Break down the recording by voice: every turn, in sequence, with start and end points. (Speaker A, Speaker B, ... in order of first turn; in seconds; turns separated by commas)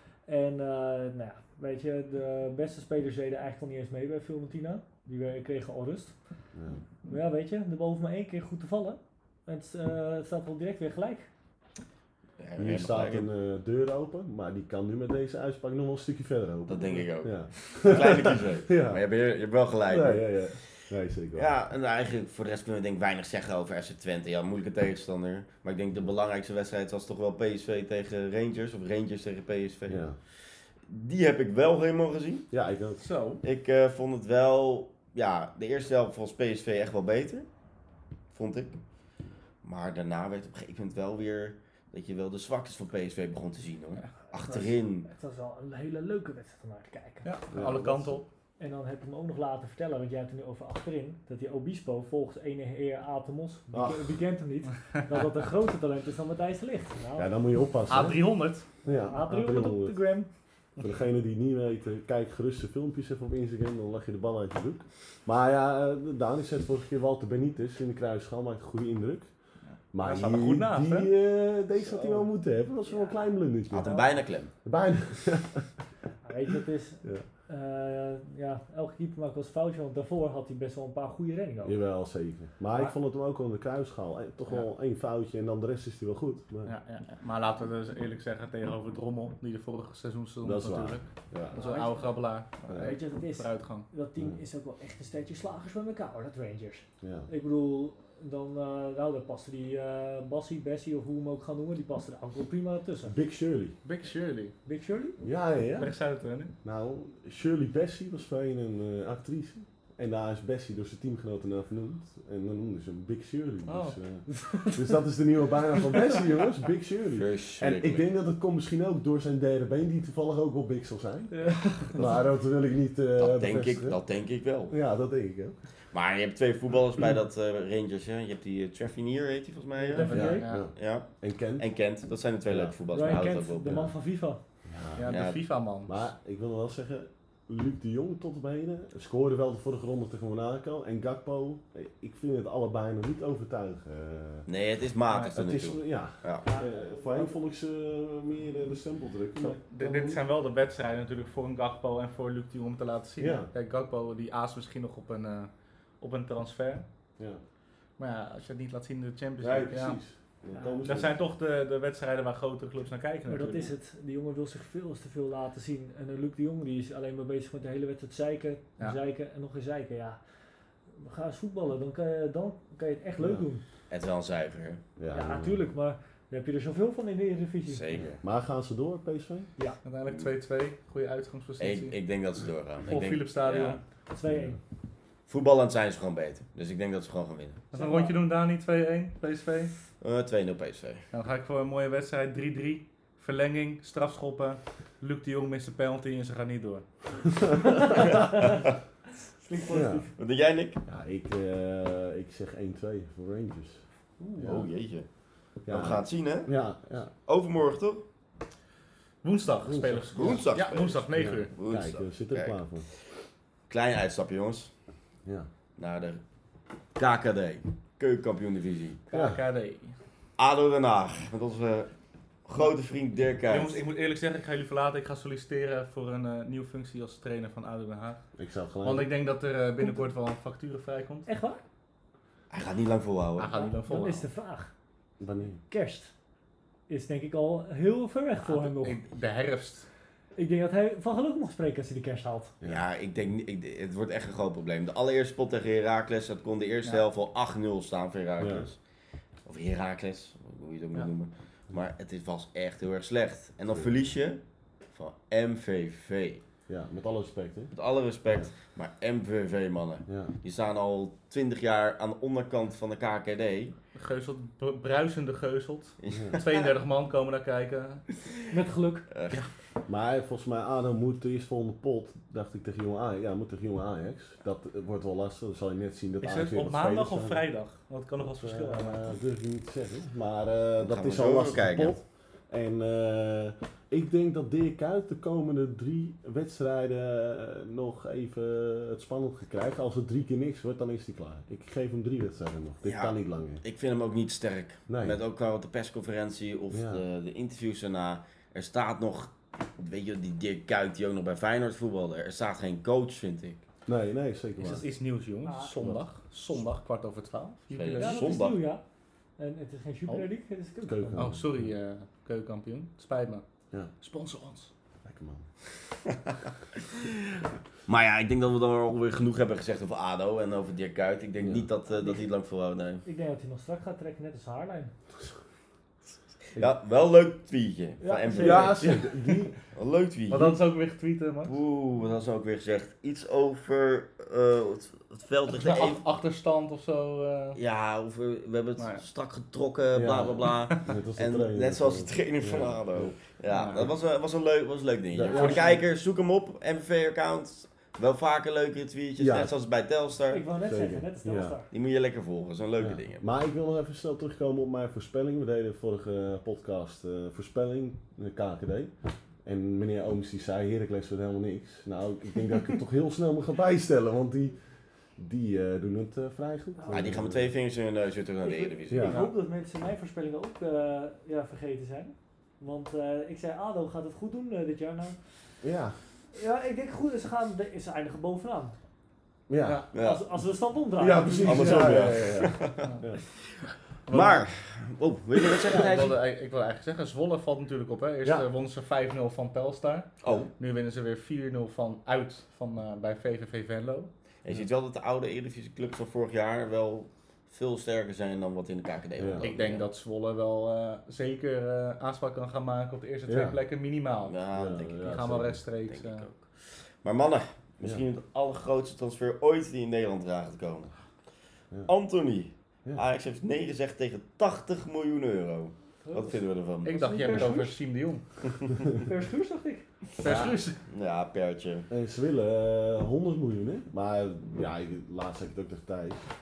Speaker A: 0.3-6.1, Speaker B: 6.5-6.8, Speaker A: 7.1-11.3, Speaker C: 12.4-13.3, Speaker B: 12.6-19.0, Speaker C: 16.7-20.8, Speaker B: 19.9-21.5, Speaker C: 21.3-30.1, Speaker B: 29.9-30.2, Speaker C: 30.8-32.5, Speaker B: 32.5-33.0, Speaker D: 33.0-33.4, Speaker C: 33.4-37.5, Speaker C: 38.3-38.8, Speaker C: 39.6-45.1, Speaker A: 44.4-47.3, Speaker D: 47.2-48.2, Speaker B: 47.5-48.2, Speaker A: 48.6-57.3, Speaker B: 53.7-54.2, Speaker B: 57.1-58.2, Speaker D: 57.9-58.7, Speaker B: 58.8-60.0, Speaker A: 58.9-60.3, Speaker B: 60.8-69.3, Speaker B: 69.9-74.1, Speaker D: 70.0-71.1, Speaker A: 72.8-73.2, Speaker C: 73.7-74.5, Speaker B: 74.6-75.7, Speaker A: 76.2-81.8, Speaker B: 81.6-86.7, Speaker D: 86.7-93.9, Speaker B: 90.4-91.5, Speaker A: 91.5-92.2, Speaker B: 92.7-93.0, Speaker A: 92.8-103.1, Speaker B: 97.0-97.3, Speaker B: 103.1-103.8, Speaker D: 103.8-104.5, Speaker A: 104.6-105.2, Speaker B: 105.2-105.9, Speaker D: 105.8-106.5, Speaker B: 106.6-124.0, Speaker D: 113.7-114.0, Speaker A: 114.3-114.8, Speaker C: 117.1-118.0, Speaker A: 121.3-122.0, Speaker C: 123.2-124.7, Speaker B: 124.7-125.5, Speaker C: 125.9-133.8, Speaker A: 129.8-130.5, Speaker D: 129.9-130.7, Speaker B: 130.1-131.7, Speaker B: 132.5-132.8, Speaker A: 132.9-134.4, Speaker B: 133.7-133.9, Speaker B: 134.6-135.2, Speaker D: 134.9-136.0, Speaker C: 135.1-135.4, Speaker B: 135.8-144.4, Speaker C: 144.4-146.4, Speaker D: 145.1-145.4, Speaker B: 145.3-150.2, Speaker A: 146.4-147.4, Speaker D: 149.4-156.8, Speaker B: 153.2-153.5, Speaker D: 158.0-160.0, Speaker B: 159.4-161.2, Speaker A: 160.5-160.9, Speaker D: 160.8-163.7, Speaker A: 163.3-170.2, Speaker A: 171.0-173.6, Speaker B: 173.2-173.4, Speaker C: 173.9-174.8, Speaker B: 175.0-175.6, Speaker A: 175.1-177.8, Speaker C: 177.7-178.2, Speaker B: 178.2-179.5, Speaker D: 179.8-181.9, Speaker C: 180.1-180.3, Speaker C: 181.6-183.8, Speaker D: 182.8-183.8, Speaker A: 184.1-184.6, Speaker B: 184.3-184.6, Speaker C: 185.3-187.6, Speaker A: 187.7-188.2, Speaker D: 187.7-189.7, Speaker C: 190.0-191.0, Speaker D: 191.1-196.8, Speaker B: 197.3-197.8, Speaker A: 197.7-198.6, Speaker C: 198.1-198.6, Speaker A: 199.4-200.1, Speaker B: 199.7-200.0, Speaker C: 200.2-200.8, Speaker B: 200.8-204.7, Speaker C: 204.4-205.1, Speaker C: 205.7-206.5, Speaker B: 205.7-207.1, Speaker C: 207.2-208.0, Speaker D: 209.2-211.5, Speaker B: 209.6-210.4, Speaker C: 210.1-212.6, Speaker B: 211.1-212.8, Speaker C: 213.7-214.7, Speaker C: 215.8-216.2, Speaker C: 216.9-219.0, Speaker D: 219.1-219.9, Speaker B: 219.1-219.4, Speaker C: 220.4-221.9, Speaker C: 222.4-223.8, Speaker D: 223.5-228.2, Speaker B: 228.4-229.1, Speaker D: 228.8-231.3, Speaker A: 229.8-230.0, Speaker A: 231.3-231.6, Speaker C: 232.5-233.6, Speaker D: 233.4-234.3, Speaker A: 233.5-234.7, Speaker B: 235.2-235.6, Speaker A: 235.7-236.1, Speaker A: 236.9-239.0, Speaker D: 238.4-239.9, Speaker A: 240.3-242.5, Speaker C: 242.6-248.8, Speaker B: 248.4-248.7, Speaker C: 249.4-254.4, Speaker B: 253.7-253.9, Speaker C: 254.9-256.4, Speaker B: 256.7-257.7, Speaker C: 257.7-263.7, Speaker B: 260.1-260.3, Speaker D: 263.9-268.1, Speaker C: 266.0-266.6, Speaker B: 266.1-266.4, Speaker A: 268.5-269.1, Speaker C: 269.1-269.4, Speaker B: 269.9-277.4, Speaker D: 276.2-279.1, Speaker B: 278.2-293.6, Speaker C: 280.8-282.0, Speaker C: 292.8-303.6, Speaker B: 294.9-295.2, Speaker B: 296.7-297.0, Speaker B: 303.9-304.8, Speaker D: 304.6-308.4, Speaker A: 305.4-305.7, Speaker C: 307.7-308.6, Speaker A: 308.0-308.8, Speaker A: 309.4-311.3, Speaker B: 310.8-311.7, Speaker D: 311.1-313.4, Speaker D: 314.0-314.7, Speaker B: 315.0-315.4, Speaker C: 316.3-317.2, Speaker C: 317.9-323.0, Speaker B: 321.4-321.7, Speaker A: 321.9-322.2, Speaker A: 323.0-324.9, Speaker C: 326.5-328.9, Speaker A: 328.0-328.8, Speaker B: 328.3-329.5, Speaker D: 328.8-329.1, Speaker C: 329.7-330.6, Speaker D: 330.3-331.6, Speaker C: 331.4-336.0, Speaker D: 335.5-337.6, Speaker C: 337.6-350.5, Speaker D: 338.8-339.0, Speaker B: 339.9-343.1, Speaker D: 343.5-343.9, Speaker B: 345.1-345.8, Speaker A: 345.3-345.7, Speaker D: 345.3-345.7, Speaker B: 349.2-349.5, Speaker A: 350.3-351.7, Speaker B: 350.6-351.6, Speaker C: 351.7-353.2, Speaker B: 352.8-358.9, Speaker B: 359.4-364.6, Speaker B: 365.2-367.5, Speaker A: 366.8-367.1, Speaker C: 366.9-369.3, Speaker A: 368.4-375.2, Speaker B: 368.9-369.2, Speaker B: 375.6-376.0, Speaker A: 376.3-378.8, Speaker B: 379.5-379.8, Speaker D: 379.6-379.9, Speaker C: 379.9-380.2, Speaker A: 379.9-382.1, Speaker B: 381.0-383.2, Speaker C: 381.4-382.9, Speaker D: 384.1-384.5, Speaker C: 384.1-386.2, Speaker D: 385.5-394.1, Speaker C: 390.2-390.5, Speaker C: 394.4-399.9, Speaker B: 399.2-399.5, Speaker D: 399.4-404.4, Speaker B: 403.3-403.6, Speaker C: 404.2-405.3, Speaker B: 404.5-405.6, Speaker D: 405.0-406.3, Speaker C: 405.9-410.9, Speaker C: 411.9-417.5, Speaker A: 416.0-417.8, Speaker D: 416.8-418.2, Speaker C: 418.5-418.8, Speaker A: 419.0-419.9, Speaker D: 420.2-420.8, Speaker B: 420.2-420.6, Speaker C: 420.2-421.9, Speaker B: 421.9-426.2